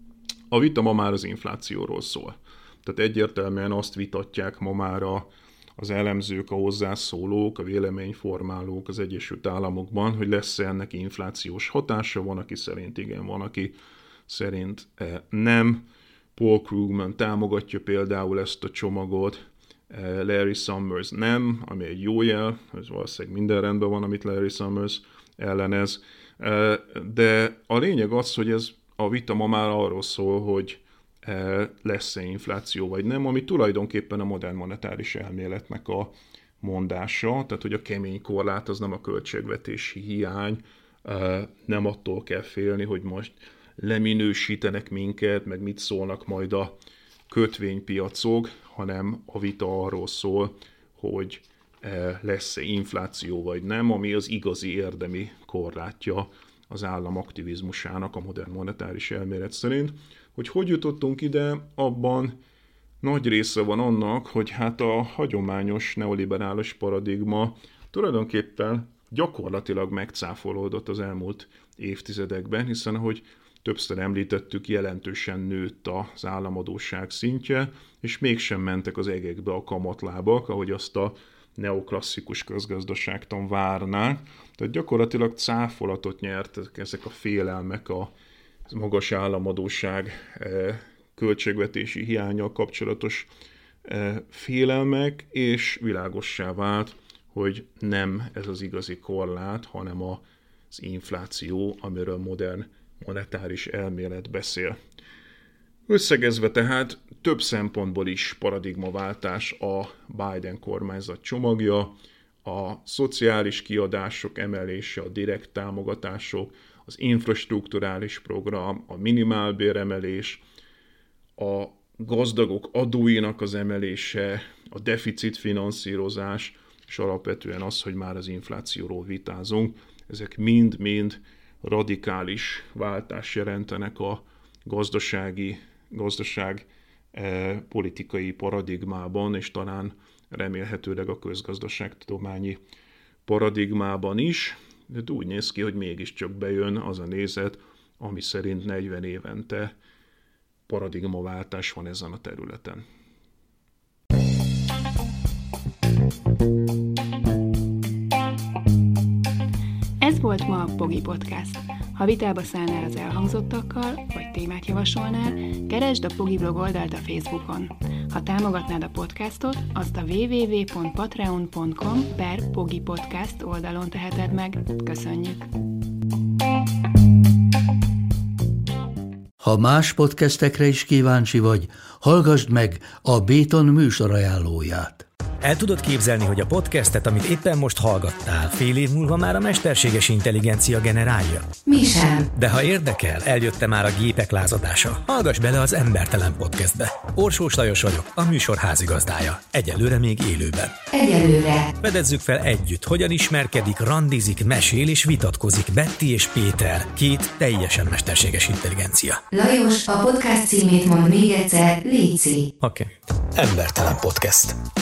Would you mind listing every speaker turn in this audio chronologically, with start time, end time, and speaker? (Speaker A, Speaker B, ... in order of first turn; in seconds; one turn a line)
Speaker A: 0.5-13.8
Speaker A: 14.3-46.7
Speaker A: 47.3-62.4
Speaker A: 63.0-88.1
Speaker A: 88.7-93.3
Speaker A: 93.8-104.8
Speaker A: 105.9-120.4
Speaker A: 121.4-142.6
Speaker A: 143.3-149.7
Speaker A: 150.7-152.8
Speaker B: 160.0-175.5
Speaker C: 179.4-185.1
Speaker D: 185.4-191.5
Speaker E: 191.7-192.3
Speaker D: 192.3-200.7
Speaker E: 200.9-201.7
Speaker D: 201.8-209.2
Speaker E: 209.3-212.5
Speaker D: 212.6-214.6